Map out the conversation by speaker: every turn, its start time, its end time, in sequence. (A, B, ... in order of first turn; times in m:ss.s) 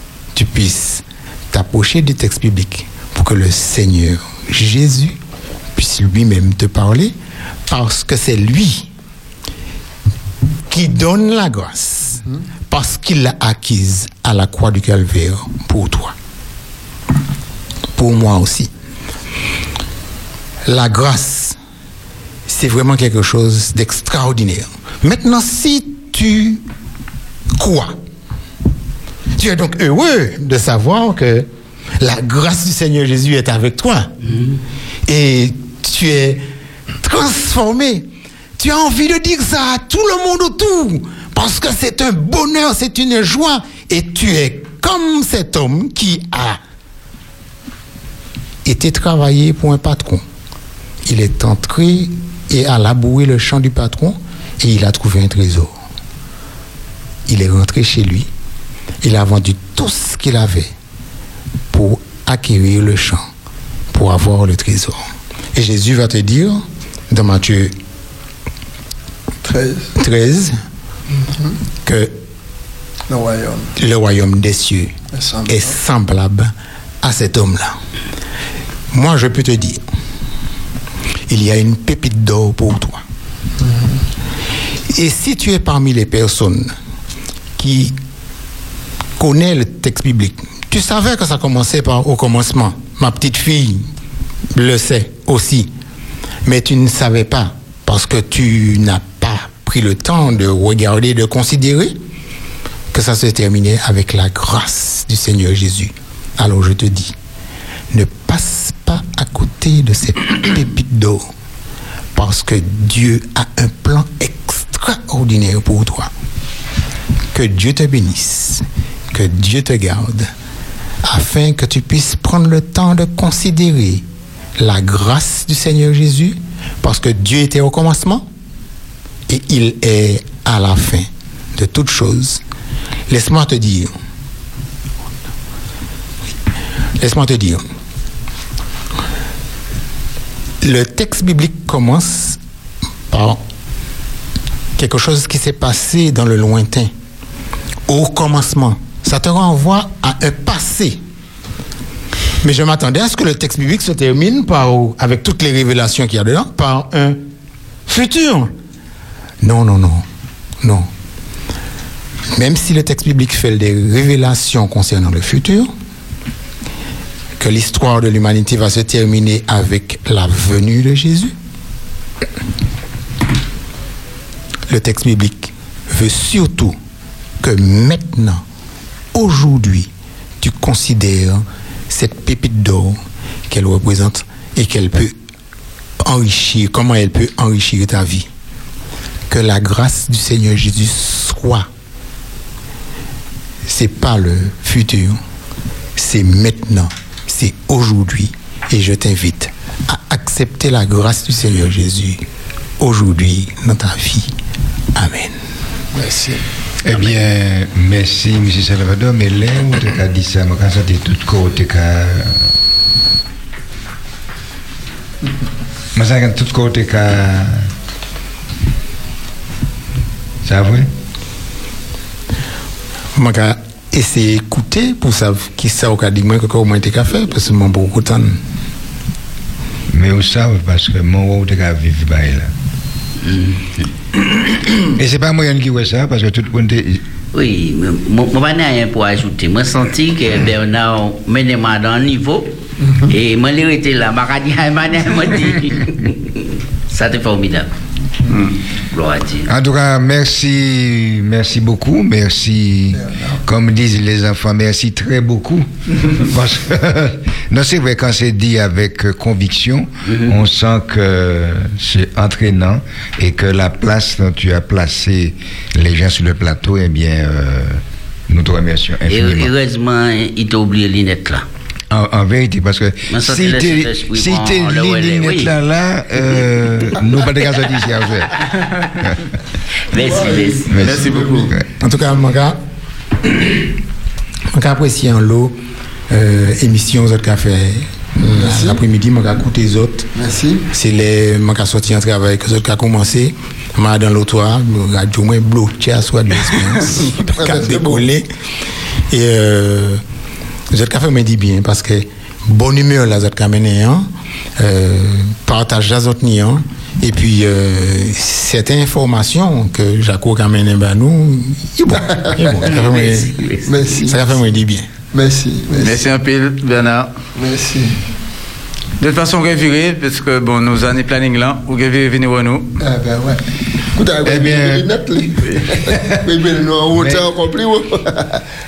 0:00.3-0:05.2 A
0:05.7-0:07.1 A
0:07.7-0:08.9 A
0:10.7-0:16.1 A
0:18.0-0:18.7 A
0:20.6-0:21.6 A
0:22.5-0:26.6 A
0:27.6-0:27.9 A
0:29.4-0:31.5 A
0:32.0-0:34.1 A
0:35.1-0:36.4 A
0:37.0-0:38.0 A
0:38.6-0:46.6 A
0:48.6-0:50.2 A
0:51.0-0:55.7 A
0:57.3-0:58.3 A
0:59.0-1:00.7 A
1:01.7-1:03.2 A
1:03.9-1:05.0 A
1:05.5-1:07.7 A
1:09.4-1:09.9 B
1:10.0-1:10.5 A
1:11.2-1:11.6 B
1:11.8-1:12.1 A
1:13.1-1:13.7 B
1:13.8-1:14.9 A
1:15.1-1:15.7 B
1:15.4-1:17.8 A
1:18.9-1:19.8 A
1:21.3-1:23.0 A
1:23.6-1:24.0 B
1:24.9-1:26.7 A
1:27.6-1:28.0 A
1:29.2-1:33.9 A
1:34.5-1:35.7 A
1:36.4-1:42.0 A
1:42.9-1:47.1 A
1:47.9-1:51.2 A
1:52.1-1:56.1 A
1:57.3-2:00.3 A
2:01.0-2:04.0 A
2:04.6-2:08.3 A
2:09.3-2:12.4 A
2:13.1-2:13.9 A
2:17.0-2:17.6 A
2:20.6-2:22.4 A
2:23.1-2:23.4 A
2:24.8-2:26.9 A
2:27.9-2:31.0 A
2:32.4-2:37.2 A
2:37.9-2:38.5 A
2:39.4-2:40.0 A
2:40.6-2:40.9 A
2:42.3-2:45.7 A
2:47.4-2:51.3 A
2:54.7-2:56.7 A
2:57.4-2:58.4 A
2:59.1-2:59.9 A
3:00.4-3:03.0 A
3:03.5-3:05.1 A
3:06.0-3:08.3 A
3:09.3-3:11.6 A
3:13.6-3:15.2 A
3:16.0-3:22.2 A
3:22.8-3:24.3 A
3:25.0-3:25.3 A
3:25.9-3:26.4 B
3:26.8-3:32.4 C
3:35.9-3:37.7 C
3:40.4-3:40.9 C
3:43.2-3:48.4 A
3:49.9-3:52.5 C
3:53.2-3:53.6 D
3:54.8-3:57.0 C
3:57.3-4:02.5 D
4:03.1-4:07.7 D
4:08.9-4:09.5 D
4:09.5-4:29.5 C
4:12.9-4:13.4 B
4:20.1-4:20.3 D
4:29.1-4:31.4 D
4:31.9-4:38.4 C
4:33.1-4:35.5 D
4:39.9-4:40.7 D
4:40.0-4:41.5 B
4:40.7-4:41.6 C
4:40.8-4:41.5 E
4:41.8-4:42.6 A
4:44.5-4:45.6 A
4:46.1-4:50.1 A
4:48.2-4:48.8 B
4:50.1-4:50.6 B
4:50.7-4:58.3 A
4:57.1-4:58.1 B
4:59.1-5:00.0 A
5:00.7-5:04.0 A
5:04.6-5:13.4 A
5:11.9-5:12.6 B
5:12.6-5:13.6 D
5:13.6-5:14.3 B
5:14.0-5:14.8 A
5:15.1-5:16.0 B
5:15.8-5:17.1 E
5:17.4-5:17.9 B
5:19.0-5:22.7 E
5:22.8-5:23.4 B
5:24.0-5:28.4 B
5:24.2-5:24.8 C
5:25.9-5:26.2 C
5:26.9-5:27.3 C